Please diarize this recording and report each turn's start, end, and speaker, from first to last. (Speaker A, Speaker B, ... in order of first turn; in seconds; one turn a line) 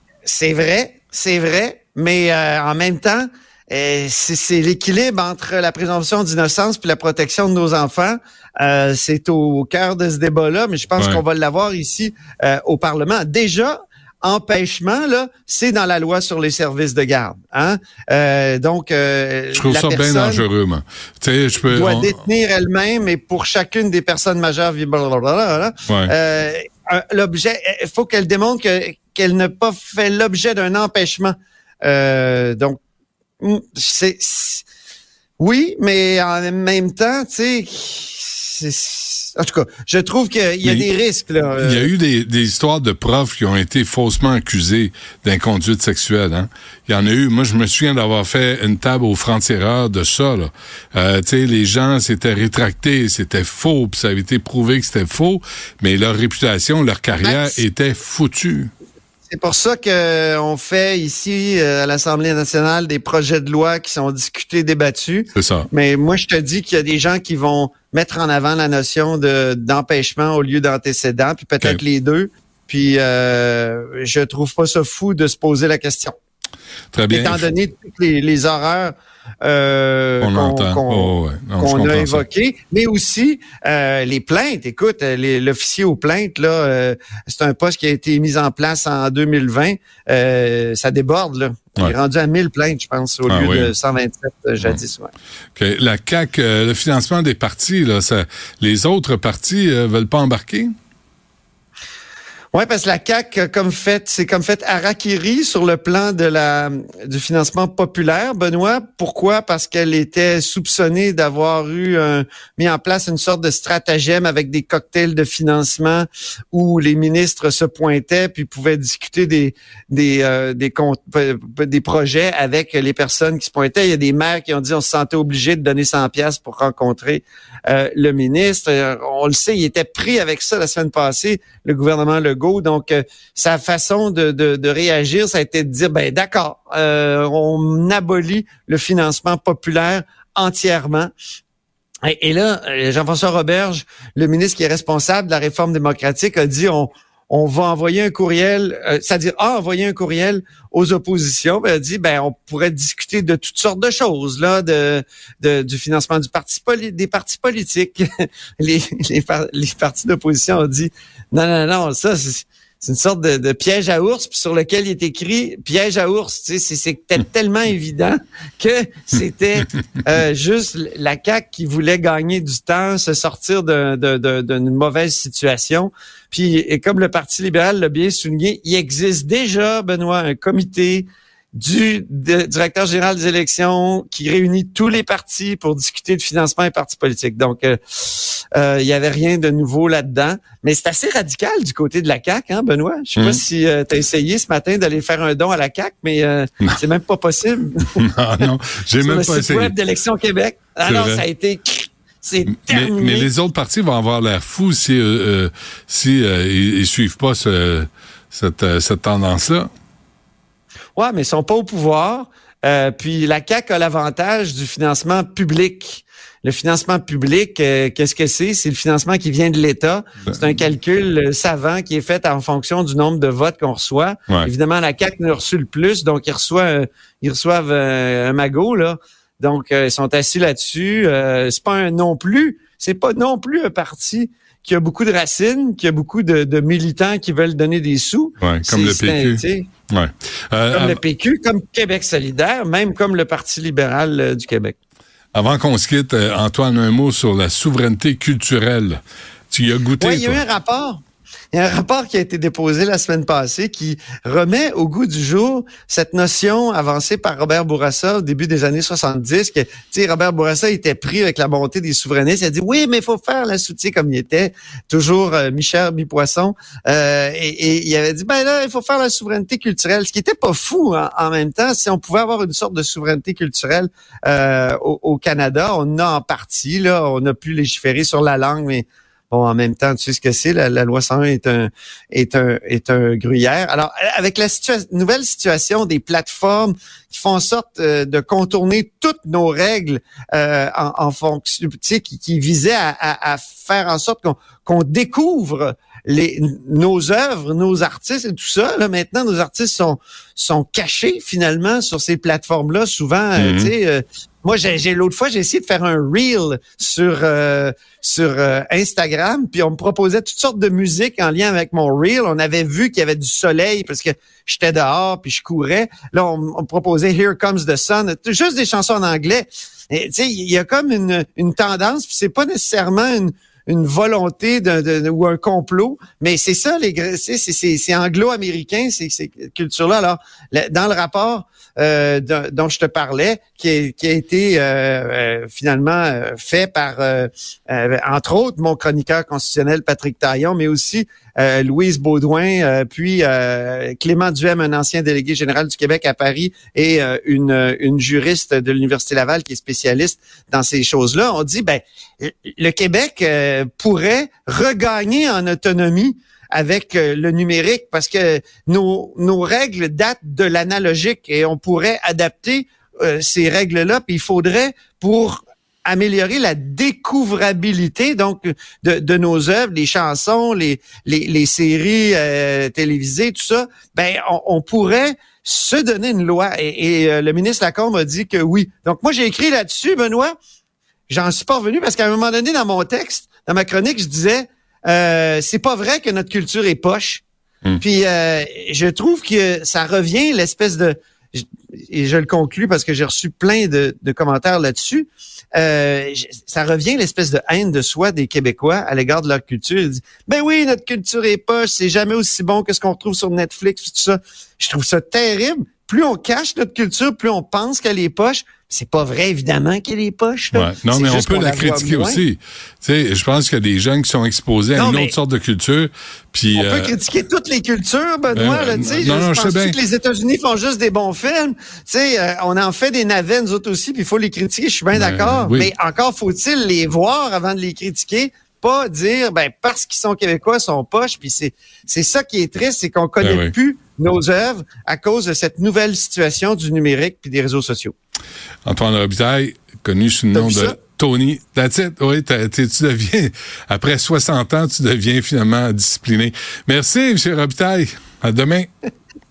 Speaker A: 0.2-20.4
Speaker B: 11.0-11.2
Speaker B: 19.5-22.1
Speaker A: 21.7-32.8
Speaker B: 25.9-26.1
Speaker A: 33.4-34.6
Speaker A: 35.4-41.9
Speaker B: 41.6-58.7
Speaker A: 57.2-57.6
Speaker A: 59.3-76.2
Speaker B: 65.3-65.7
Speaker B: 76.9-77.4
Speaker A: 77.1-95.1
Speaker B: 80.2-82.2
Speaker B: 93.3-93.7
Speaker B: 95.5-100.7
Speaker A: 102.5-141.1
Speaker A: 142.0-158.1
Speaker A: 158.6-198.0
Speaker B: 193.2-193.4
Speaker B: 198.0-199.7
Speaker A: 199.0-203.3
Speaker B: 200.8-201.2
Speaker B: 202.5-209.7
Speaker A: 210.9-239.7
Speaker B: 238.4-241.0
Speaker A: 240.7-244.8
Speaker B: 245.3-250.4
Speaker A: 250.0-380.4
Speaker B: 303.4-303.7
Speaker A: 381.1-387.2
Speaker A: 387.8-412.2
Speaker B: 410.5-416.9
Speaker A: 414.7-415.1
Speaker A: 416.5-437.9
Speaker B: 418.3-419.8
Speaker B: 424.9-425.7
Speaker B: 433.2-433.5
Speaker B: 438.6-448.7
Speaker A: 440.3-440.8